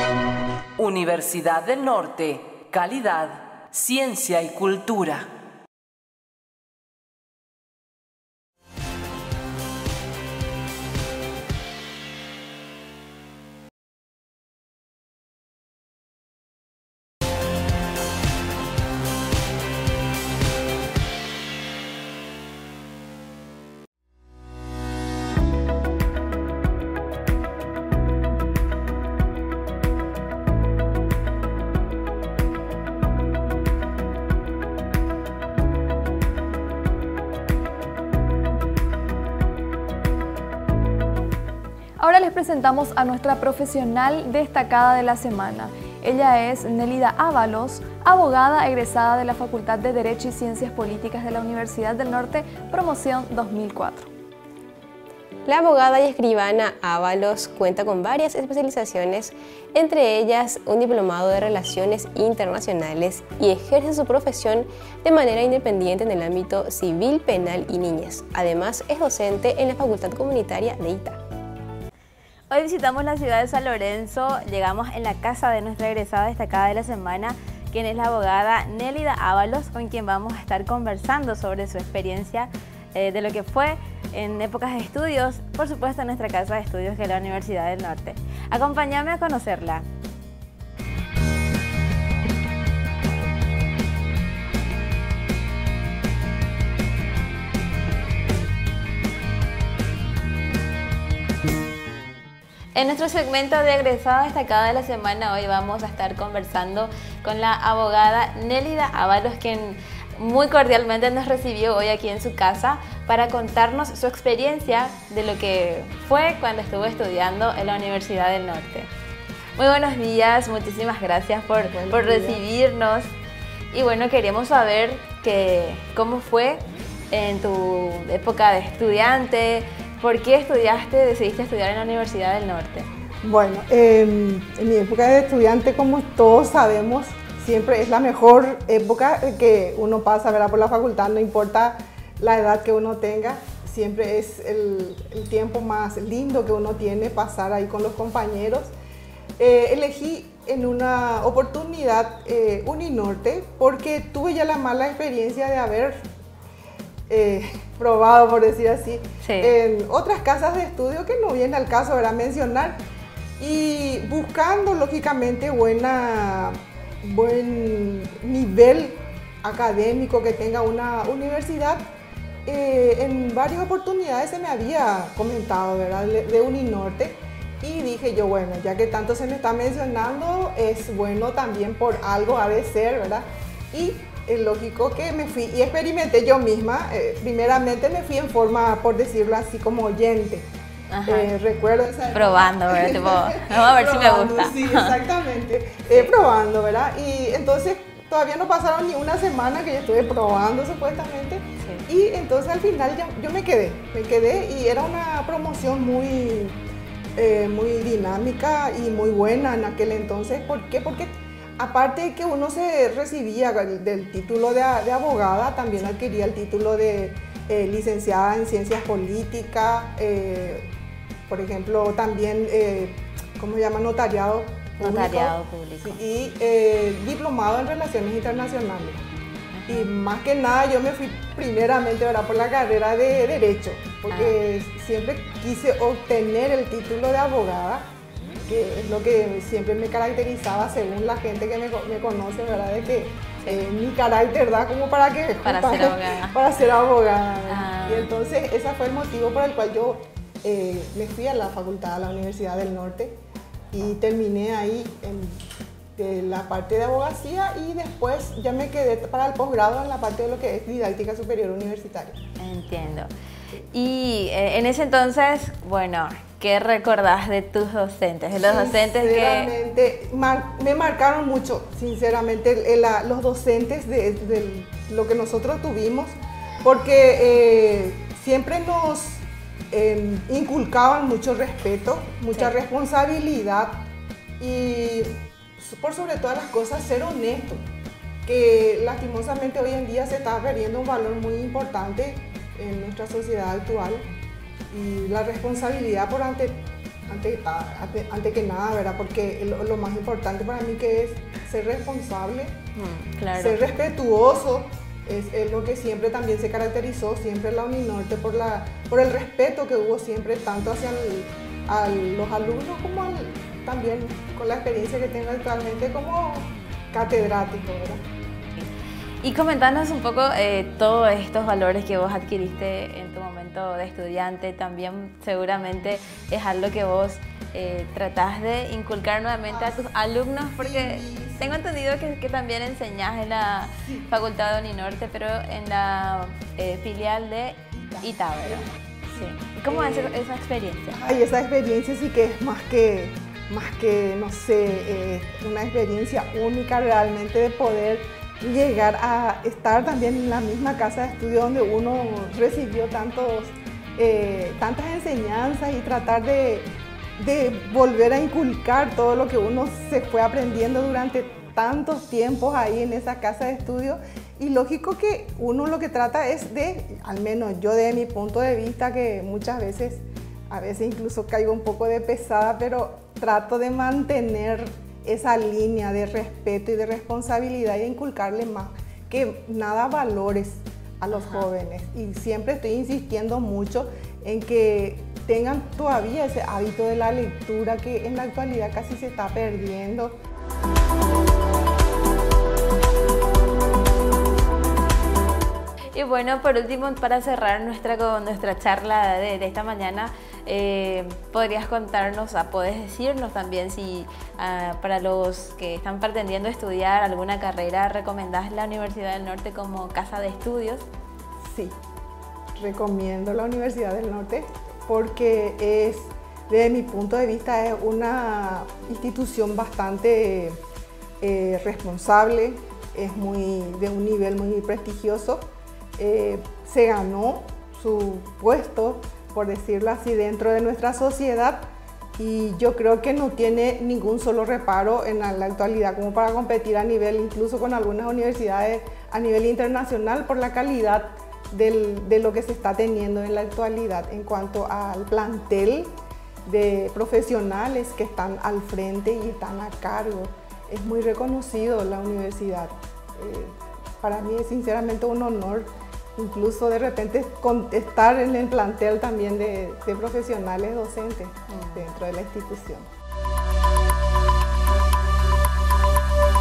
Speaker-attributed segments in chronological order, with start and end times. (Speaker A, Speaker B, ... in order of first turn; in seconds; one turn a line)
Speaker A: 0.8-5.3
Speaker B: 42.0-54.1
Speaker C: 55.5-71.2
Speaker D: 72.5-89.8
Speaker D: 102.7-118.9
Speaker D: 119.5-123.1
Speaker E: 121.6-122.4
Speaker D: 123.7-132.9
Speaker E: 133.2-148.7
Speaker E: 149.4-156.0
Speaker E: 157.1-162.8
Speaker D: 159.2-159.5
Speaker E: 163.4-171.8
Speaker E: 172.4-190.4
Speaker D: 190.9-191.3
Speaker E: 191.0-206.6
Speaker D: 192.1-194.9
Speaker E: 207.2-220.7
Speaker E: 221.3-229.0
Speaker D: 224.8-226.0
Speaker D: 229.5-229.9
Speaker E: 229.7-237.8
Speaker D: 234.1-234.4
Speaker E: 238.5-253.1
Speaker D: 245.4-246.4
Speaker D: 247.5-248.1
Speaker E: 253.7-255.4
Speaker E: 255.9-262.2
Speaker D: 262.4-263.1
Speaker D: 263.7-269.5
Speaker E: 268.3-283.8
Speaker E: 284.4-287.6
Speaker E: 288.2-294.0
Speaker E: 294.7-302.5
Speaker D: 302.7-303.6
Speaker E: 303.3-318.0
Speaker D: 319.2-341.0
Speaker E: 329.5-331.6
Speaker E: 333.8-334.1
Speaker E: 337.8-340.2
Speaker E: 340.9-390.1
Speaker D: 381.1-381.5
Speaker D: 395.9-410.8
Speaker E: 411.5-411.8
Speaker E: 412.5-420.6
Speaker E: 421.2-425.4
Speaker E: 426.0-431.6
Speaker E: 432.2-445.9
Speaker E: 446.4-462.9
Speaker D: 461.5-461.9